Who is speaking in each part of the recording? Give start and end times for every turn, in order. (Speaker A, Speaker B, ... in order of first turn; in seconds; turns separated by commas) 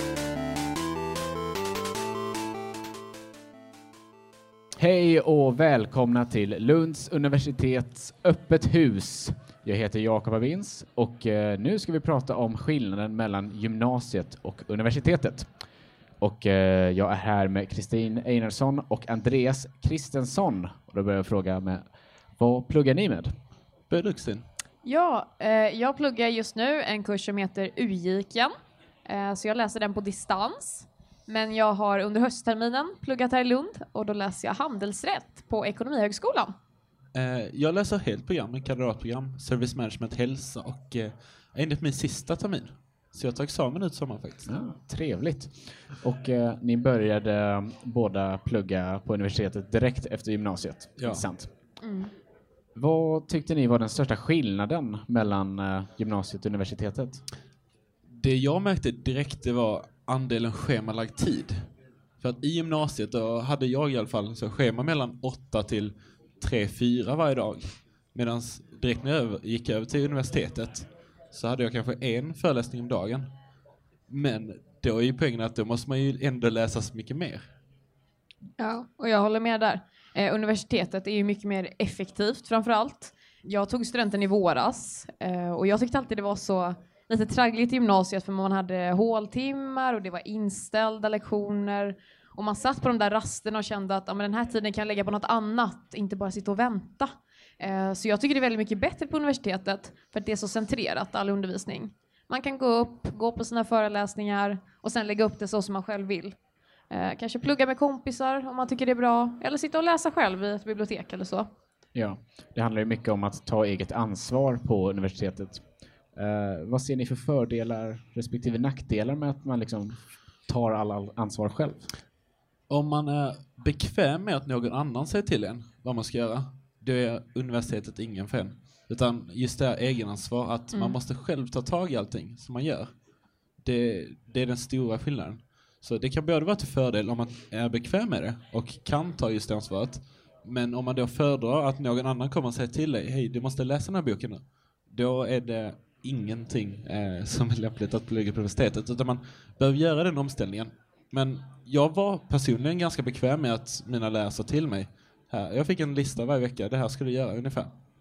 Speaker A: 4.8-15.6, Speaker A: 16.2-23.3, Speaker B: 23.9-24.5, Speaker C: 24.8-28.5, Speaker C: 29.1-36.5, Speaker B: 37.1-44.5, Speaker A: 44.5-51.5, Speaker B: 51.0-51.3, Speaker C: 51.8-52.1, Speaker A: 52.8-57.3, Speaker B: 58.1-73.3, Speaker B: 74.1-77.5, Speaker C: 78.6-106.4, Speaker C: 106.9-111.5, Speaker A: 111.9-121.9, Speaker B: 122.7-133.0, Speaker C: 130.7-131.0, Speaker B: 133.6-157.8